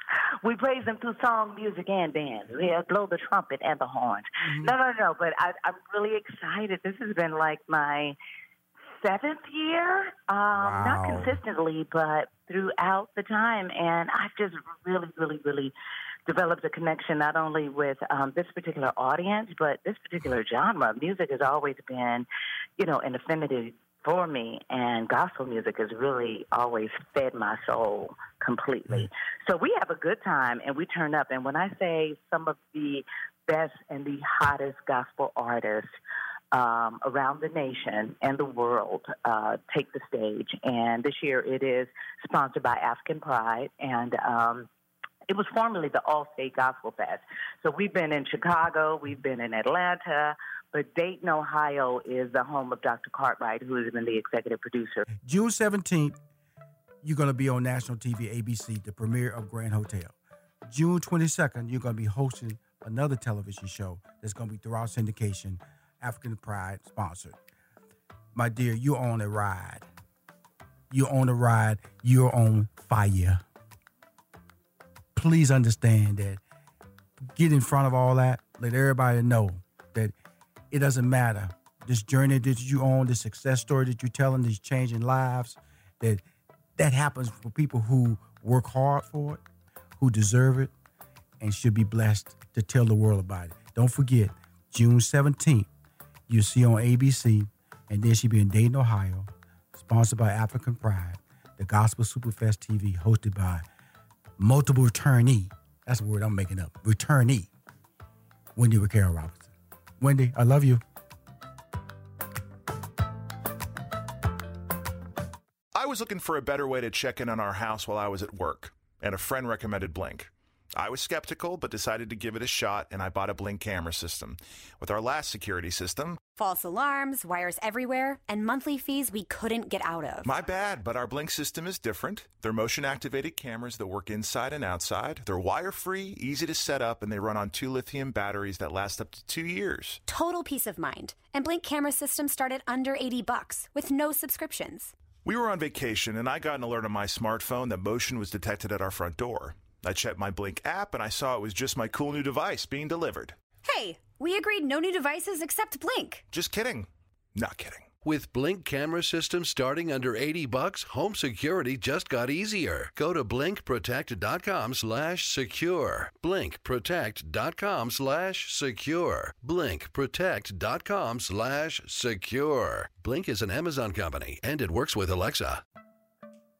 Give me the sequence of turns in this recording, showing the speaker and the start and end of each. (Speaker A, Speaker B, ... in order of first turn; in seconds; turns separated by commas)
Speaker A: 0.4-8.2, Speaker B: 4.4-4.7, Speaker A: 8.9-15.7, Speaker B: 10.5-11.4, Speaker A: 16.3-35.9, Speaker A: 36.5-44.7, Speaker A: 45.3-55.1, Speaker B: 55.2-56.2, Speaker B: 57.0-60.1, Speaker B: 60.6-67.4, Speaker B: 68.3-69.9, Speaker B: 70.9-73.4, Speaker B: 75.1-76.4, Speaker B: 77.2-80.1, Speaker B: 80.7-86.2, Speaker B: 86.8-89.4, Speaker B: 90.0-90.7, Speaker B: 91.4-95.7, Speaker B: 96.3-103.6, Speaker B: 104.4-107.5, Speaker B: 108.5-109.5, Speaker B: 110.0-110.8, Speaker C: 115.7-126.2, Speaker D: 126.3-130.3, Speaker C: 130.2-140.0, Speaker D: 140.1-144.9, Speaker C: 145.2-153.3, Speaker D: 153.6-156.2, Speaker C: 156.3-157.9, Speaker E: 158.0-175.6